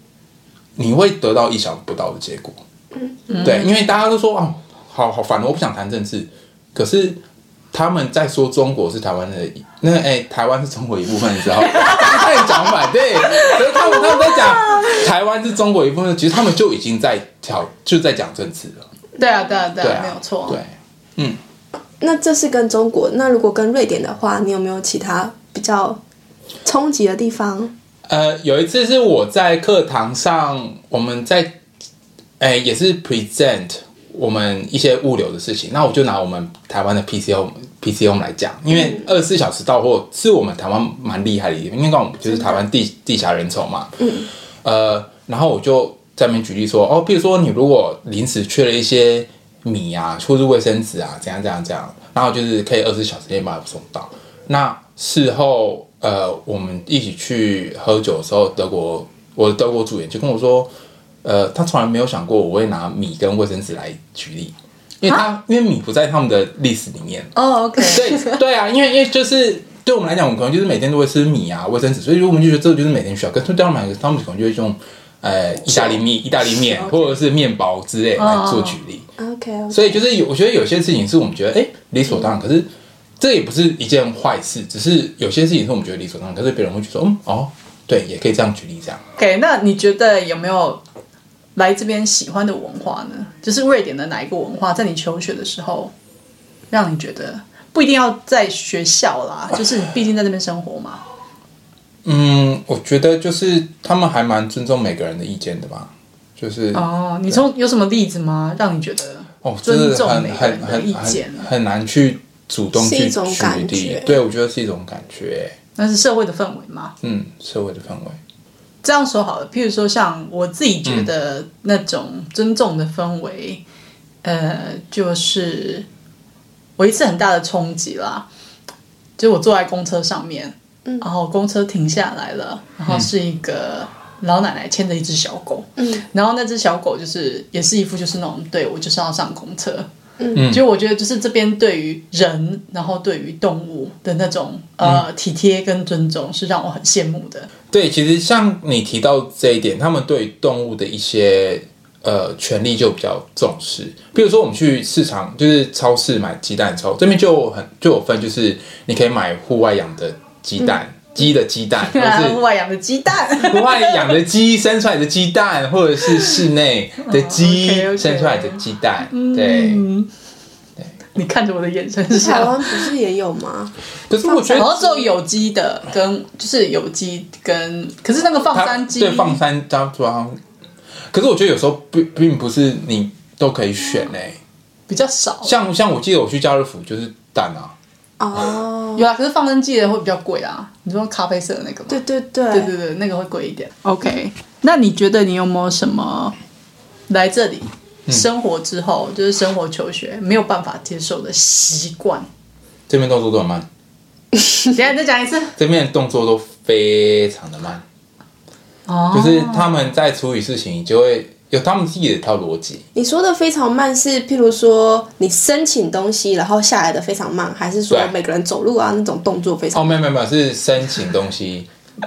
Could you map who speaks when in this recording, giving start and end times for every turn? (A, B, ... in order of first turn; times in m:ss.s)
0:00.8-0:02.6 A
0:03.0-0:03.4 B
0:03.3-0:03.7 C
0:03.4-0:07.2 A
0:07.7-0:18.9 A
0:11.7-0:12.6 C
0:19.2-0:20.6 C
0:19.8-0:21.4 A
0:22.0-0:26.0 B
0:26.6-0:27.7 B
0:28.1-0:31.6 A
0:32.4-1:00.7 A
0:38.7-0:39.1 B
0:42.3-0:42.6 B
0:44.0-0:44.3 B
1:01.2-1:19.1 A
1:07.4-1:08.1 C
1:15.7-1:17.2 B
1:18.2-1:18.8 C
1:19.2-1:20.0 B
1:19.7-1:22.7 A
1:23.2-1:29.0 A
1:29.2-1:30.8 C
1:31.6-1:35.9 C
1:36.7-1:41.0 C
1:42.0-1:47.4 A
1:46.7-1:51.5 C
1:49.4-1:55.6 A
1:52.7-1:54.2 B
1:55.8-1:56.9 C
1:57.0-1:58.2 A
1:58.8-2:03.6 C
2:04.2-2:05.9 C
2:06.8-2:08.3 C
2:09.2-2:19.9 C
2:15.8-2:16.0 B
2:20.2-2:20.5 B
2:20.3-2:20.6 A
2:20.4-2:27.5 C
2:27.7-2:42.4 A
2:41.9-2:44.1 C
2:43.4-2:49.9 A
2:47.0-2:50.1 C
2:51.2-2:52.9 C
2:52.1-2:55.1 B
2:54.1-2:54.7 A
2:54.5-2:59.4 C
2:58.5-3:00.4 A
3:01.1-3:04.4 A
3:04.9-3:05.5 C
3:05.4-3:07.7 A
3:08.2-3:09.1 B
3:09.0-3:16.4 C
3:11.9-3:12.7 B
3:17.1-3:22.3 C
3:22.9-3:23.7 A
3:24.7-3:25.5 C
3:25.6-3:27.8 A
3:28.9-3:29.8 C
3:29.1-3:32.8 A
3:33.0-3:39.9 B
3:39.7-3:41.7 A